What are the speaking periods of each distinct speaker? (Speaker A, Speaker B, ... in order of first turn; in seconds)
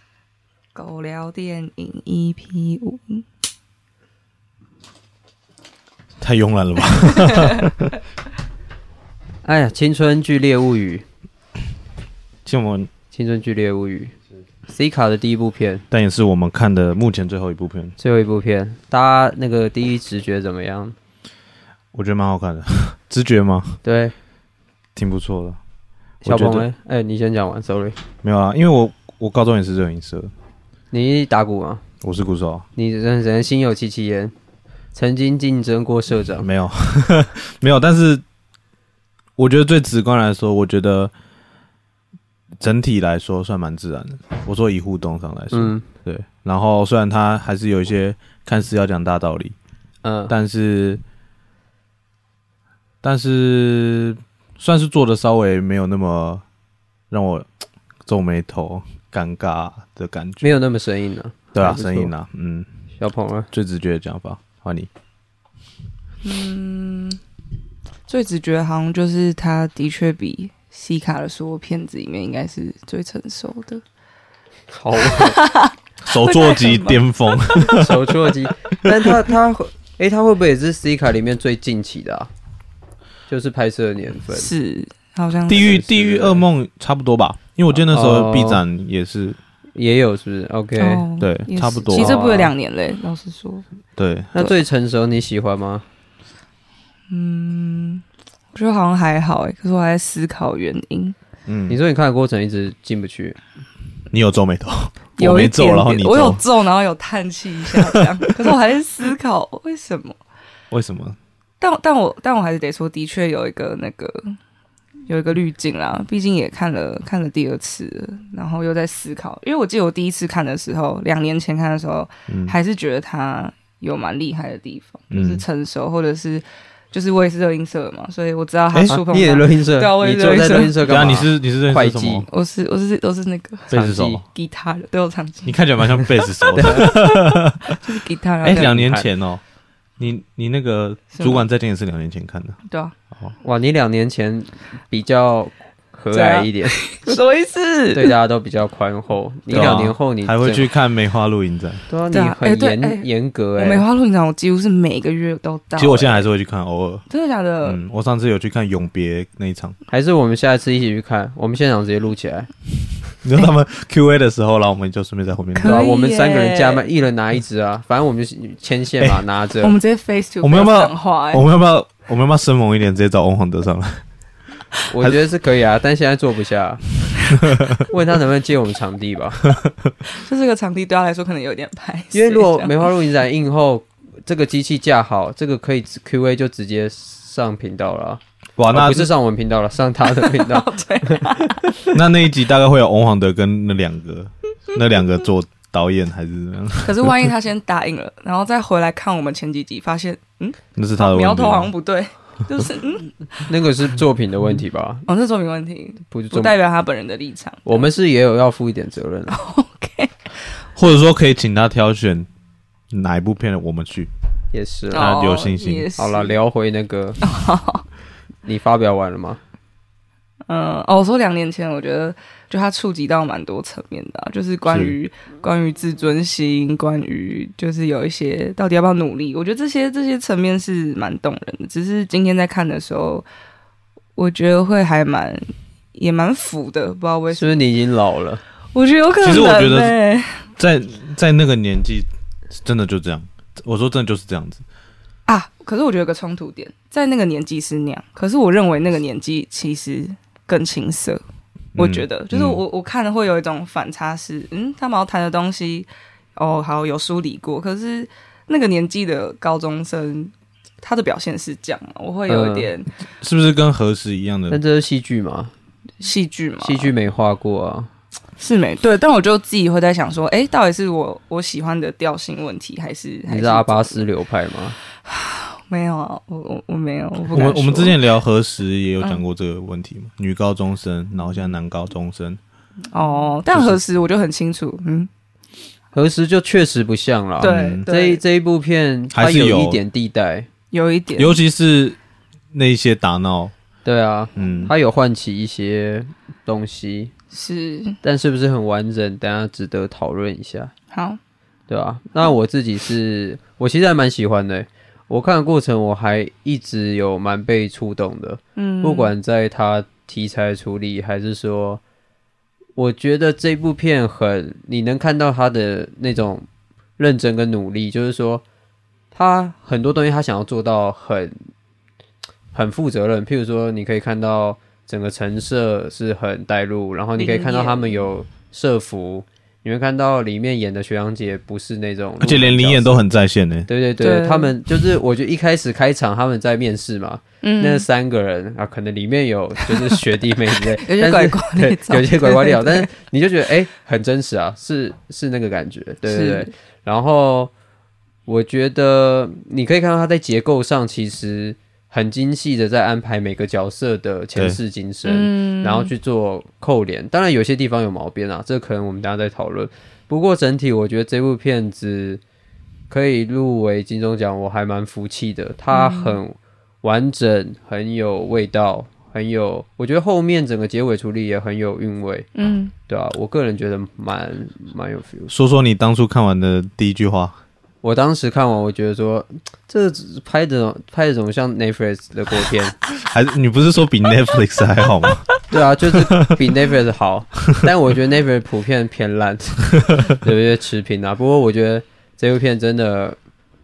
Speaker A: 0.7-3.2, 7.2-7.7, 66.2-67.2, 68.1-73.8, 75.0-77.4, 84.3-85.8, 90.8-93.6, 97.1-101.2, 105.2-110.2, 111.6-114.4, 115.1-130.8, 132.3-135.6, 136.5-138.8, 141.1-141.4, 142.7-142.9, 146.1-148.2, 152.1-156.3, 157.1-157.8, 165.6-166.8, 169.6-171.4, 180.1-182.9, 190.0-191.9, 196.8-203.4, 205.1-207.9, 209.3-210.3, 214.9-216.3, 217.2-217.8, 220.5-233.3, 234.2-237.6, 238.7-240.4, 245.3-251.2, 251.8-262.9, 266.0-266.9, 268.4-274.1, 275.0-278.0, 282.9-285.1, 287.4-288.2, 290.7-291.4, 297.3-298.0, 300.9-301.2, 308.6-309.1, 327.2-328.0, 334.0-334.5, 337.4-337.9, 340.6-342.9, 346.0-346.5, 355.0-355.9, 365.7-366.2, 372.3-372.7
Speaker B: 6.2-7.9, 12.4-12.9, 15.9-17.9, 21.9-23.8, 24.9-25.6, 26.2-26.6, 28.2-30.3, 32.0-32.7, 36.4-38.2, 39.4-41.1, 42.6-49.5, 50.3-51.0, 53.0-56.4, 57.1-57.5, 58.0-60.5, 61.5-62.7, 63.5-64.9, 76.0-78.3, 85.5-89.4, 91.2-92.2, 94.0-94.3, 101.5-101.8, 104.1-106.4, 107.7-108.4, 110.7-111.2, 122.3-122.5, 125.1-125.4, 128.7-129.0, 130.8-132.3, 133.7-134.2, 135.4-137.8, 138.4-139.4, 140.0-142.6, 149.5-151.8, 155.8-157.0, 157.6-159.8, 163.2-165.8, 169.0-169.2, 170.4-174.0, 177.3-177.8, 188.6-189.1, 191.9-197.3, 200.8-201.7, 210.8-212.3, 212.9-214.1, 214.9-215.9, 224.7-224.9, 239.2-239.9, 240.6-244.6, 251.8-252.6, 263.2-264.6, 277.3-282.4, 283.5-283.8, 287.4-287.9, 289.1-289.8, 291.2-292.0, 292.5-293.5, 294.4-294.7, 332.2-333.7, 375.3-377.4, 382.9-385.3, 385.9-386.4
Speaker C: 9.4-11.1, 13.1-14.1, 14.7-15.8, 18.0-20.9, 23.8-24.1, 26.2-28.0, 30.9-31.8, 32.8-34.3, 34.9-36.5, 45.5-45.9, 50.0-50.3, 60.4-62.1, 63.0-63.5, 74.7-75.4, 77.5-82.3, 83.3-84.5, 85.5-86.4, 87.9-88.6, 89.8-91.1, 91.9-92.5, 94.3-95.8, 101.7-103.4, 128.9-132.3, 133.7-134.2, 136.5-136.8, 138.5-139.1, 143.4-147.1, 147.9-150.7, 151.9-153.8, 159.9-162.5, 165.6-169.8, 174.9-176.8, 177.8-179.5, 182.1-191.5, 203.5-205.0, 206.1-206.5, 207.7-209.4, 214.5-215.1, 215.9-217.2, 218.4-219.4, 237.3-238.4, 262.3-262.7, 264.5-265.5, 266.6-267.9, 273.3-274.8, 285.9-290.5, 293.8-297.1, 298.0-300.7, 301.7-311.8, 312.8-316.4, 317.0-318.4, 319.1-321.4, 322.5-333.0, 333.7-347.5, 348.2-362.2, 362.9-372.3, 372.9-375.3, 377.8-382.7, 385.5-393.2